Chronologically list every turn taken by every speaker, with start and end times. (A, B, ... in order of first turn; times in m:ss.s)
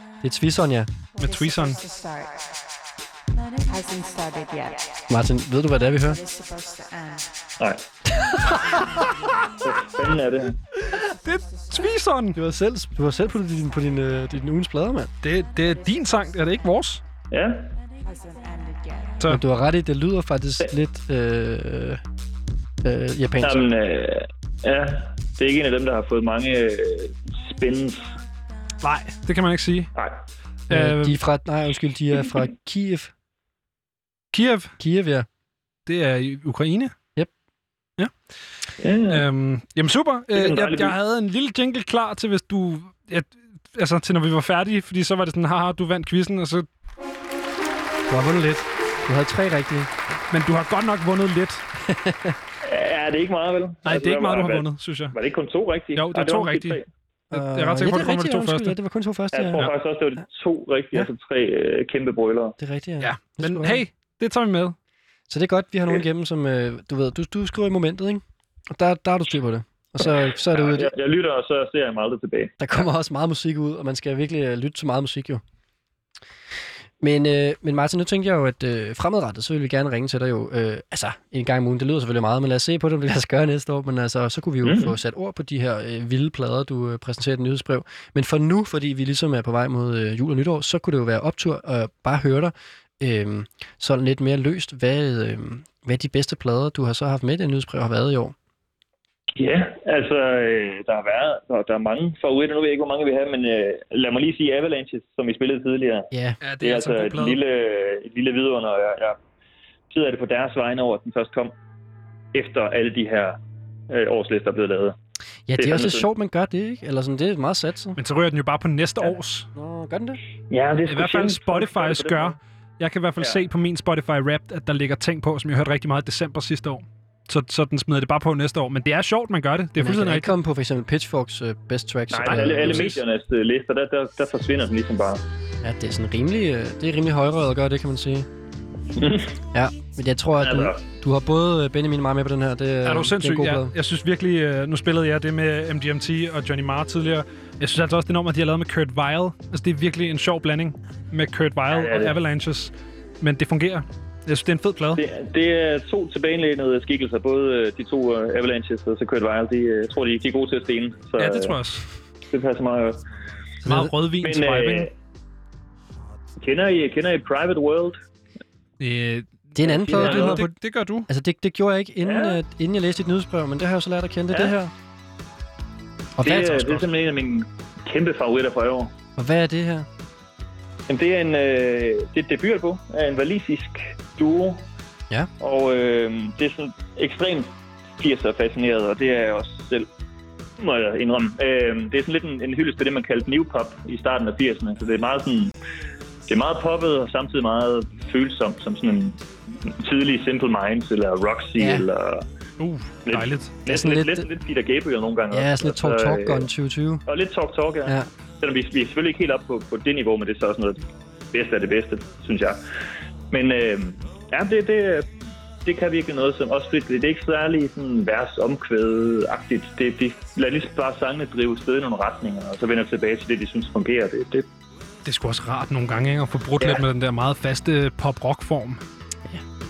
0:00.2-0:00.9 A
0:01.2-0:02.4 B
0:01.2-0:01.8 C
0:03.6-0:04.9 B
0:05.1-0:06.2 A
0:06.0-0:07.3 B
0:09.6-0:10.6 D
0:10.7-0:12.4 C
0:11.6-0:11.9 B
0:12.3-0:15.1 A
0:15.2-0:17.0 C
0:17.3-0:17.7 D
0:18.0-0:19.1 B
0:19.2-0:22.0 A
0:22.8-0:23.6 A
0:23.4-0:28.1 D
0:28.8-0:29.9 C
0:29.9-0:30.2 D
0:30.7-0:31.2 C
0:30.7-0:33.1 A
0:34.3-0:34.7 C
0:34.8-0:35.3 A
0:35.8-0:36.9 C
0:38.8-0:39.2 D
0:39.1-0:46.6 C
0:40.3-0:40.9 D
0:48.1-0:49.9 A
0:50.3-0:51.6 C
0:51.8-0:52.4 A
0:52.6-0:56.8 D
0:53.8-0:55.1 C
0:55.9-0:56.8 C
0:57.3-0:59.6 A
0:57.3-0:58.8 C
0:59.3-1:02.5 D
1:02.6-1:03.8 A
1:03.0-1:04.7 C
1:05.3-1:10.9 A
1:10.5-1:12.5 D
1:12.6-1:15.4 A
1:17.0-1:38.3 A
1:24.6-1:24.9 D
1:39.4-1:49.2 D
1:46.1-1:46.4 A
1:46.4-1:47.4 C
1:49.9-1:51.5 D
1:52.3-1:53.4 D
1:53.9-1:55.0 D
1:55.5-1:58.0 A
1:55.6-1:56.0 D
1:58.0-1:59.5 C
1:59.5-2:00.2 A
2:00.5-2:02.4 D
2:00.9-2:10.3 C
2:03.2-2:03.4 D
2:09.8-2:13.0 A
2:12.1-2:15.2 D
2:12.3-2:13.0 C
2:15.6-2:18.3 A
2:19.0-2:19.3 D
2:19.5-2:23.7 A
2:20.4-2:20.8 D
2:22.8-2:35.0 C
2:31.7-2:32.2 D
2:34.9-2:41.6 D
2:41.2-2:41.8 C
2:42.3-2:43.0 D
2:43.6-2:43.9 A
2:43.6-2:44.9 C
2:44.2-2:44.9 D
2:46.4-2:48.0 D
2:48.8-2:51.1 C
2:49.5-2:50.5 A
2:49.6-2:50.4 D
2:51.1-2:54.7 A
2:52.0-2:52.4 D
2:56.2-2:56.6 A
2:56.2-2:58.9 D
2:56.4-2:56.8 C
2:59.2-2:59.9 A
3:00.9-3:04.7 D
3:05.4-3:09.9 D
3:10.6-3:15.5 D
3:16.3-3:22.2 D
3:21.6-3:21.8 A
3:22.6-3:23.6 C
3:23.0-3:26.5 D
3:23.6-3:24.3 A
3:25.3-3:27.0 A
3:27.0-3:32.8 D
3:33.3-3:35.1 D
3:35.6-3:44.5 D
3:45.0-3:48.8 C